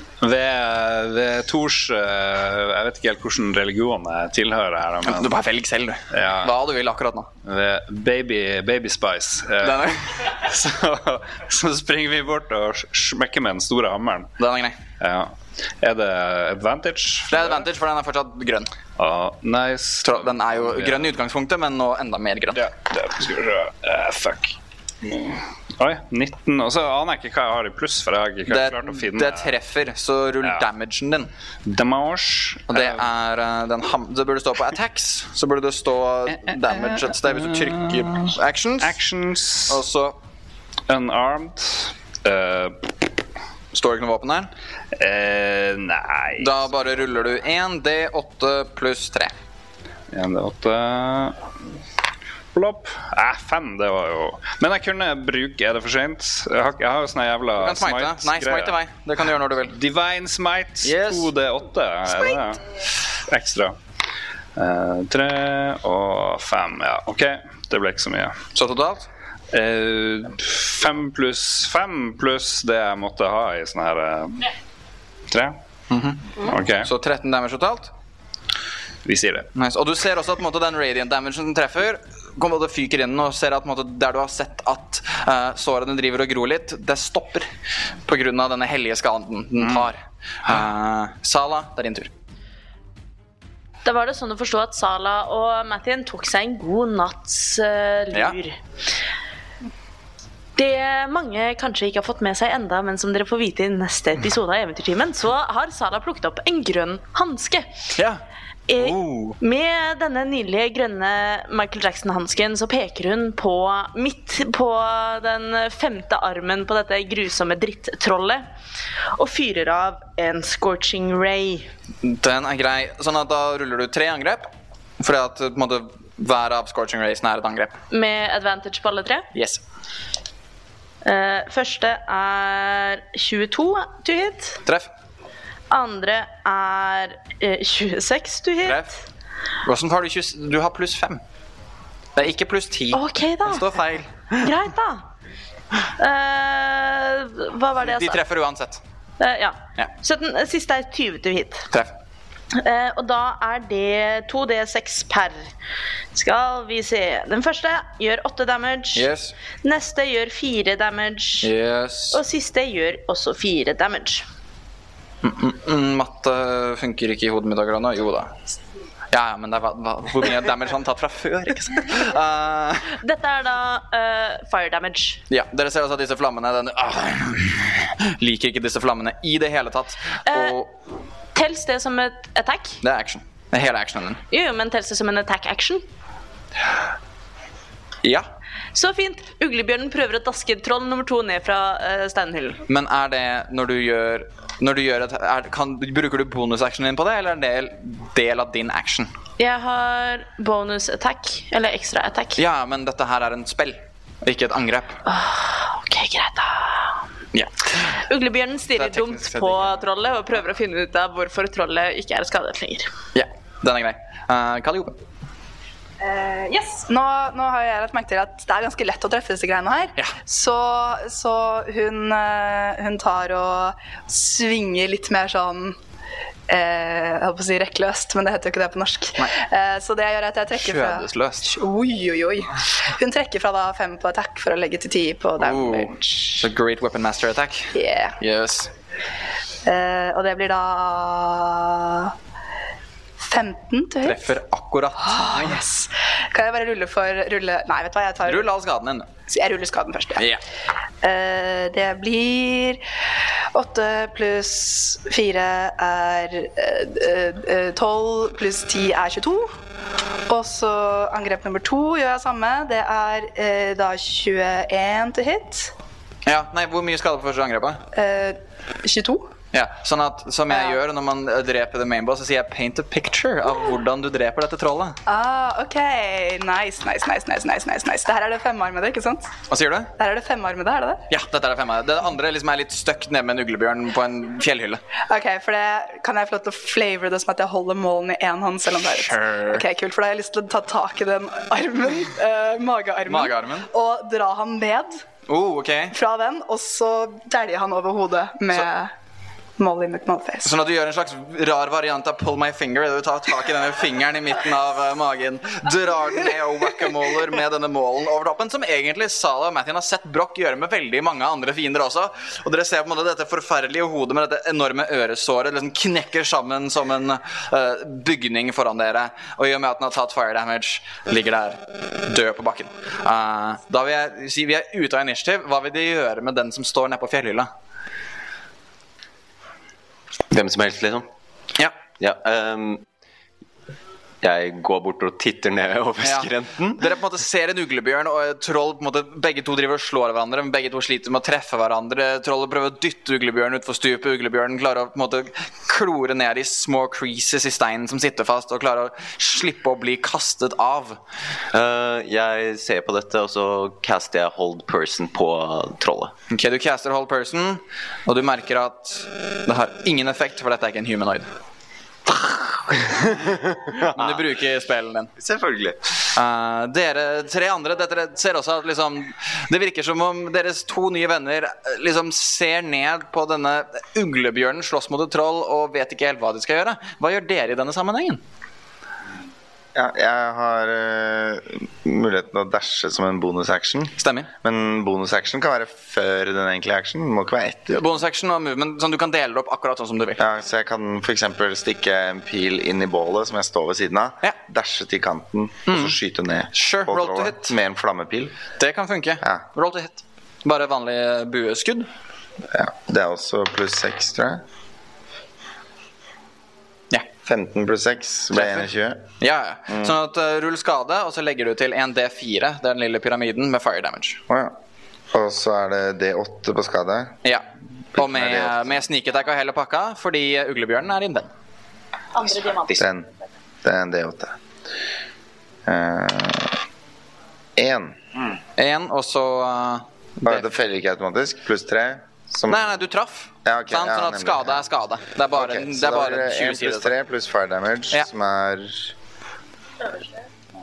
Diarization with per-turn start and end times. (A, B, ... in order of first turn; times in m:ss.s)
0:00.2-0:05.3 A
0:05.0-0:07.3 B
0:06.1-0:06.5 A
0:07.4-0:14.3 A
0:09.6-0:09.9 B
0:14.4-0:14.8 B
0:15.0-0:17.6 A
0:17.3-0:18.7 B
0:19.0-0:21.1 A
0:20.0-0:22.6 B
0:22.5-0:29.6 A
0:28.5-0:31.3 B
0:31.6-0:33.0 A
0:32.7-0:39.0 B
0:36.3-0:39.8 A
0:39.7-0:40.2 B
0:40.9-0:42.9 A
0:43.7-0:44.5 B
0:45.0-0:46.7 A
0:46.4-0:49.3 B
0:50.1-0:51.4 A
0:52.5-0:58.7 A
0:57.6-0:59.7 B
0:59.7-1:02.6 A
1:00.8-1:01.3 B
1:03.3-1:03.8 A
1:04.6-1:08.4 A
1:08.5-1:09.1 B
1:09.5-1:14.4 A
1:15.3-1:15.6 A
1:15.9-1:17.9 B
1:16.4-1:16.9 A
1:19.0-1:19.5 A
1:19.5-1:27.5 B
1:28.0-1:32.1 B
1:29.6-1:29.9 A
1:33.8-1:38.6 C
1:40.6-1:47.7 C
1:47.9-1:48.2 B
1:48.7-1:58.4 C
1:48.8-1:49.4 B
1:59.1-2:01.7 C
2:02.0-2:07.8 B
2:07.9-2:09.3 C
2:09.3-2:09.6 B
2:11.0-2:14.6 C
2:15.7-2:18.8 C
2:18.6-2:18.9 B
2:19.6-2:21.2 B
2:22.2-2:24.4 B
2:22.9-2:23.8 C
2:24.4-2:25.0 C
2:26.0-2:28.2 C
2:27.8-2:28.8 B
2:29.2-2:31.7 C
2:32.5-2:35.5 C
2:36.1-2:39.1 C
2:38.9-2:39.3 B
2:39.6-2:41.5 C
2:41.4-2:42.2 B
2:42.1-2:44.2 C
2:45.2-2:48.4 B
2:49.1-2:52.9 B
2:52.9-2:55.2 C
2:55.3-3:00.7 B
3:00.3-3:00.6 C
3:01.3-3:02.8 C
3:02.8-3:04.2 B
3:04.3-3:05.8 C
3:08.7-3:12.6 C
3:12.7-3:19.1 B
3:19.4-3:22.4 C
3:22.4-3:25.0 B
3:25.0-3:27.0 C
3:27.3-3:27.7 B
3:28.0-3:32.9 C
3:28.8-3:29.8 B
3:33.1-3:35.0 B
3:36.0-3:45.8 D
3:46.5-3:56.5 D
3:50.6-3:51.5 B
3:55.4-3:58.7 B
3:57.7-3:58.2 D
3:59.6-4:02.1 D
4:03.2-4:04.3 D
4:04.0-4:05.6 B
4:05.0-4:08.5 D
4:08.2-4:09.1 B
4:09.3-4:10.3 D
4:10.2-4:10.4 B
4:11.0-4:12.8 D
4:13.5-4:19.5 D
4:20.3-4:25.7 D
4:26.2-4:27.8 B
4:27.9-4:29.3 D
4:29.5-4:35.0 B
4:30.5-4:30.8 D
4:35.0-4:39.3 D
4:39.5-4:39.9 B
4:40.0-4:41.0 D
4:41.1-4:44.8 B
4:45.1-4:55.0 D
4:48.8-4:49.6 B
4:53.1-4:53.7 B
4:55.3-4:55.9 B
4:55.9-4:58.9 D
4:59.6-5:00.5 D
5:00.4-5:27.5 B
5:30.3-5:31.1 E
5:32.0-5:32.8 E
5:34.2-5:36.8 E
5:36.0-5:51.0 B
5:51.5-5:56.1 E
5:56.3-6:01.3 B
6:02.1-6:04.2 E
6:03.8-6:05.1 B
6:05.2-6:05.8 E
6:06.1-6:18.2 B
6:19.7-6:27.8 F
6:24.0-6:24.3 B
6:27.7-6:30.2 B
6:30.2-6:38.3 F
6:35.7-6:35.9 B
6:36.5-6:37.5 B
6:38.6-6:41.9 B
6:42.5-6:44.4 F
6:47.2-6:49.0 F
6:48.3-6:48.7 B
6:49.2-6:54.2 B
6:49.7-6:49.9 F
6:54.3-6:54.6 F
6:55.1-6:57.2 F
6:57.9-6:58.8 F
6:58.0-7:01.3 B
7:02.7-7:03.1 F
7:03.6-7:04.4 F
7:05.6-7:06.6 F
7:07.6-7:08.0 F
7:08.6-7:10.4 B
7:10.2-7:12.7 F
7:12.5-7:16.9 B
7:13.4-7:14.6 F
7:15.3-7:18.9 F